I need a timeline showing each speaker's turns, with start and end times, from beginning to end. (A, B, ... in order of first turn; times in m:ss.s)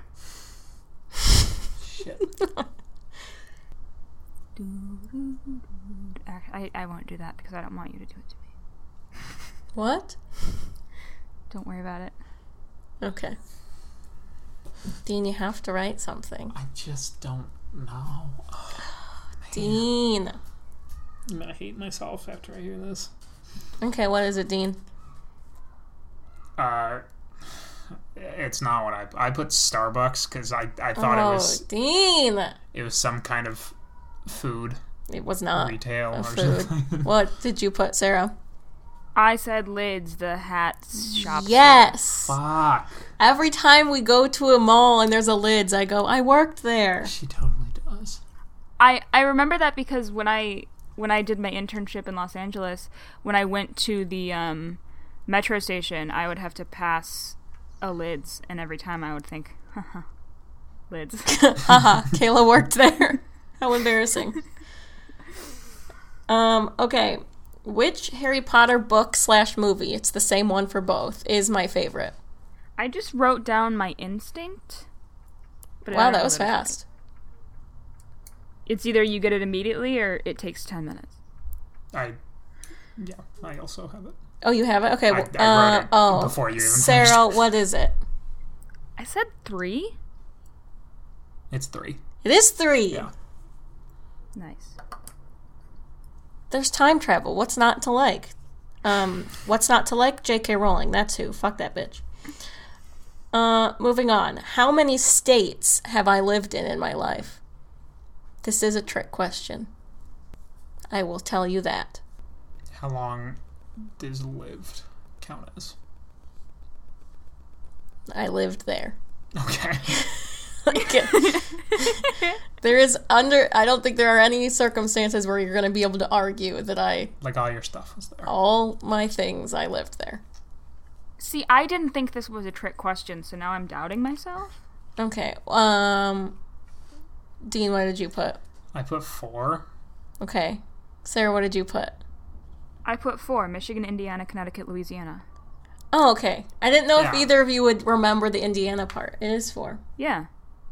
0:01.8-0:02.3 A
0:04.6-0:08.4 B
0:09.7-0:10.2 C
0:11.5-0:12.2 B
0:13.0-0:13.4 C
0:15.0-0:16.5 C
0:16.5-0:18.9 A
0:19.4-0:19.8 A
0:19.5-0:20.4 C
0:21.3-0:23.1 A
0:23.8-0:24.8 C
0:26.6-0:27.0 A
0:28.2-0:31.6 A
0:31.0-0:32.6 C
0:32.7-0:33.7 A
0:34.3-0:34.8 A
0:35.1-0:38.3 C
0:35.6-0:37.1 A
0:39.2-0:42.0 B
0:41.0-0:42.4 C
0:42.2-0:43.1 A
0:43.2-0:47.1 C
0:47.0-0:48.2 A
0:48.8-1:00.1 B
1:00.9-1:01.5 B
1:01.3-1:04.4 C
1:06.3-1:12.2 C
1:12.8-1:14.9 B
1:15.8-1:16.8 B
1:15.9-1:16.8 C
1:18.7-1:21.2 B
1:21.9-1:22.2 A
1:23.0-1:24.2 A
1:24.4-1:28.0 C
1:25.1-1:27.4 A
1:29.0-1:30.0 B
1:31.5-1:32.0 A
1:32.2-1:33.1 C
1:34.4-1:34.8 B
1:36.5-1:42.0 C
1:43.3-1:47.4 C
1:48.4-1:49.7 C
1:50.9-1:52.0 C
1:52.7-1:55.8 A
1:58.1-1:59.0 C
1:59.4-2:00.1 A
2:00.6-2:07.1 C
2:01.1-2:02.4 B
2:07.2-2:08.3 A
2:08.3-2:10.2 C
2:11.2-2:14.6 B
2:15.0-2:16.4 C
2:17.4-2:18.4 C
2:18.7-2:19.7 A
2:20.2-2:22.0 C
2:22.8-2:25.2 B
2:25.9-2:29.8 C
2:27.0-2:27.3 A
2:30.0-2:30.3 B